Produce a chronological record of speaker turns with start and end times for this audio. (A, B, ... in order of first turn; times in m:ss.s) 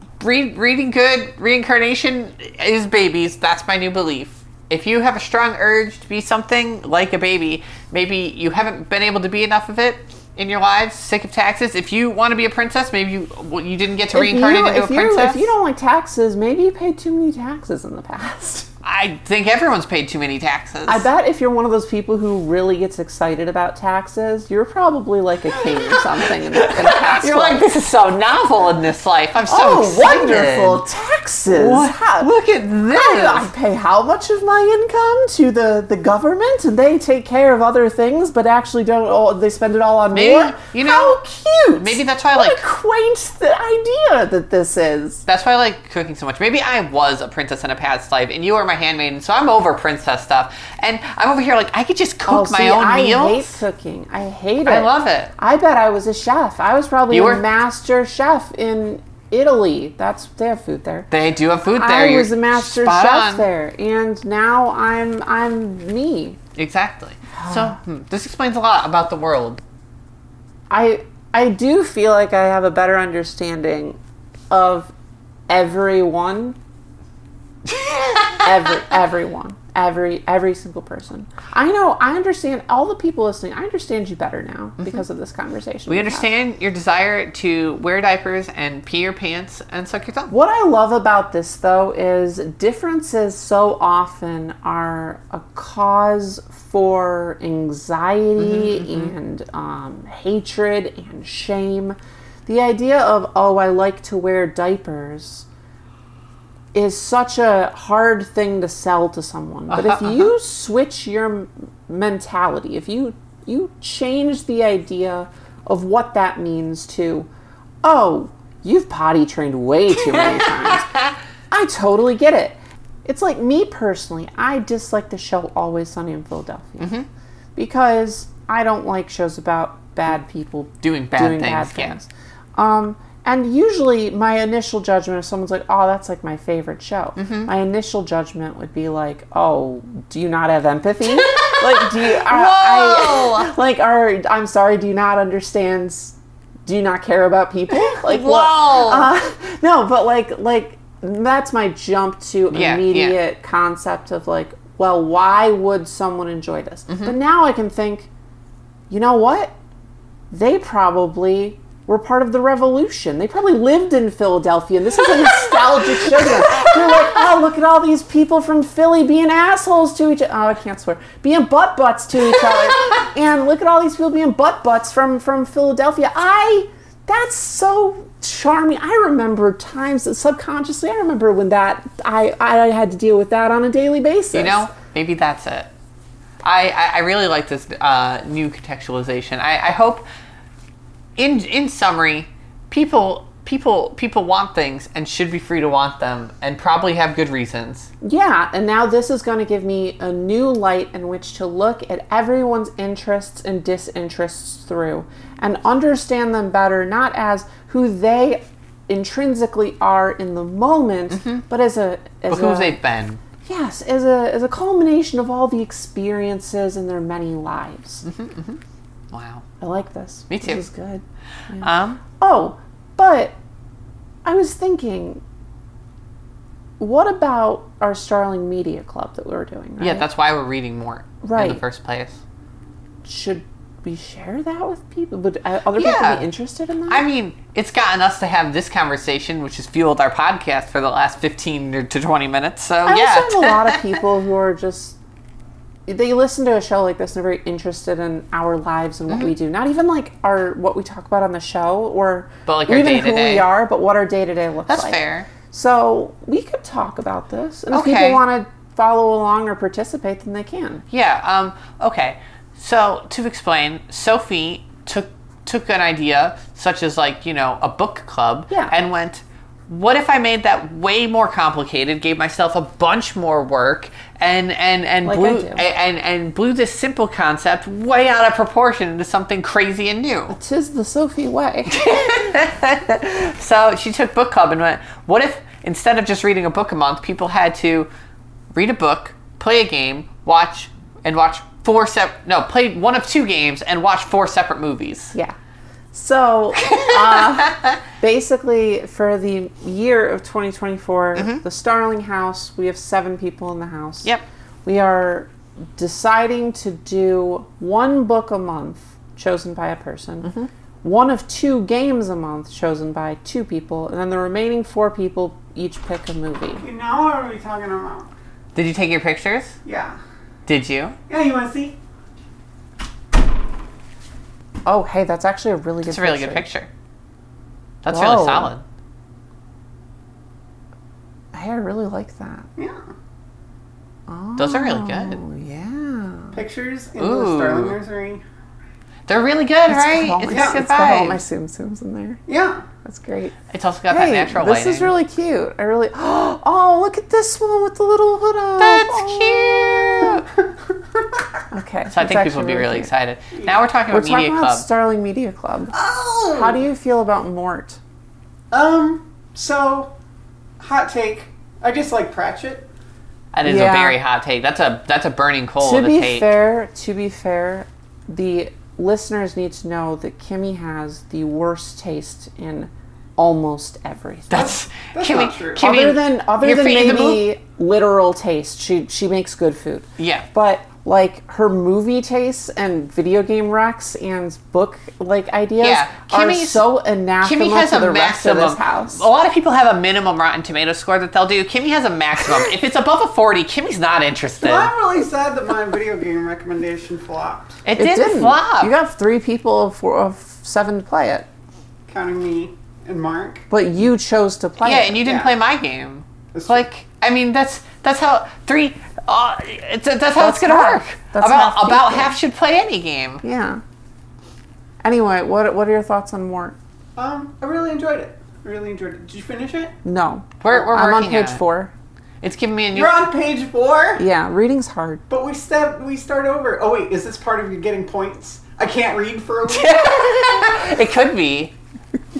0:00.2-0:15.5 A
0:14.1-0:18.7 B
0:18.8-0:21.1 A
0:20.9-0:27.6 B
0:25.6-0:30.8 A
0:29.4-0:32.3 B
0:31.5-0:33.5 A
0:32.9-0:45.2 B
0:40.1-0:41.2 A
0:41.8-0:42.6 A
0:45.2-0:53.5 A
0:52.2-1:01.1 B
0:54.6-0:55.3 A
0:57.1-0:57.4 A
1:01.1-1:03.5 A
1:01.7-1:06.4 B
1:06.6-1:09.6 A
1:07.3-1:07.8 B
1:10.7-1:14.0 B
1:14.5-1:14.9 B
1:15.5-1:16.6 B
1:17.6-1:18.4 A
1:18.4-1:26.3 B
1:25.9-1:30.3 A
1:30.3-1:45.4 B
1:38.4-1:39.1 A
1:46.7-1:57.3 B
1:49.7-1:50.3 A
1:57.8-2:00.8 B
2:00.0-2:01.1 A
2:01.5-2:07.0 B
2:06.8-2:07.1 A
2:07.6-2:26.1 B
2:10.8-2:12.0 A
2:17.2-2:17.5 A
2:21.2-2:23.5 A
2:26.6-2:38.1 B
2:27.9-2:29.1 A
2:32.5-2:33.2 A
2:36.9-2:37.1 A
2:38.9-2:39.5 B
2:40.3-3:04.7 B
2:46.2-2:47.0 A
3:04.3-3:05.7 A
3:06.4-3:10.0 A
3:11.2-3:17.9 A
3:18.0-3:32.8 B
3:31.1-3:31.4 A
3:32.3-3:33.2 A
3:33.4-3:38.0 B
3:38.0-3:38.6 A
3:39.1-3:39.4 A
3:39.6-3:43.3 B
3:40.3-3:40.6 A
3:41.6-3:42.0 A
3:44.2-3:45.2 B
3:46.8-3:50.0 B
3:49.8-3:52.2 A
3:51.2-3:51.6 B
3:53.0-3:57.0 B
3:55.8-3:56.3 A
3:56.9-4:03.8 A
4:02.8-4:05.0 B
4:05.9-4:20.8 B
4:09.1-4:09.3 A
4:12.4-4:13.5 A
4:14.7-4:15.3 A
4:17.7-4:18.2 A
4:20.9-4:40.4 A
4:35.0-4:35.6 B
4:40.3-4:41.9 B
4:41.7-4:47.9 A
4:48.5-4:55.1 A
4:55.9-5:04.1 B
4:56.6-4:57.7 A
5:01.1-5:01.4 A
5:04.6-5:10.3 B
5:10.2-5:10.5 A
5:10.8-5:16.6 B
5:16.6-5:18.1 C
5:18.5-5:19.5 A
5:19.6-5:20.0 C
5:20.5-5:21.0 A
5:21.1-5:21.8 C
5:24.6-5:26.5 B
5:25.8-5:26.7 A
5:27.8-5:28.6 A
5:27.9-5:28.5 B
5:31.3-5:32.5 B
5:32.6-5:32.9 C
5:34.1-5:36.4 B
5:34.4-5:35.2 A
5:36.3-5:38.2 C
5:37.0-5:37.8 A
5:39.1-5:41.2 A
5:39.7-5:42.2 B
5:40.3-5:40.6 C
5:42.3-5:42.6 C
5:42.8-5:43.4 B
5:43.5-5:44.9 A
5:43.9-5:50.2 B
5:48.6-5:50.2 A
5:51.5-5:52.9 B
5:51.9-5:54.6 A
5:53.9-5:55.7 B
5:55.7-5:56.6 C
5:56.3-5:57.8 B
5:58.5-5:59.9 C
6:00.6-6:02.7 C
6:03.3-6:06.3 A
6:03.4-6:04.0 B
6:05.6-6:14.6 B
6:14.3-6:17.2 A
6:14.3-6:15.6 C
6:15.6-6:29.0 B
6:20.0-6:20.3 A
6:25.6-6:26.6 A
6:27.2-6:34.7 A
6:34.4-6:37.6 C
6:37.6-6:38.7 A
6:37.8-6:41.3 B
6:41.9-6:43.4 C
6:43.5-6:45.1 B
6:44.6-6:53.2 A
6:45.0-6:45.3 C
6:46.3-6:46.6 C
6:50.2-6:52.1 B
6:53.2-6:53.6 B
6:54.8-6:56.6 B
6:57.0-6:59.8 C
6:59.8-7:01.7 B
7:00.4-7:01.4 A
7:02.2-7:03.0 A
7:02.7-7:04.0 C
7:04.0-7:05.0 B
7:05.1-7:09.8 C
7:09.5-7:11.5 A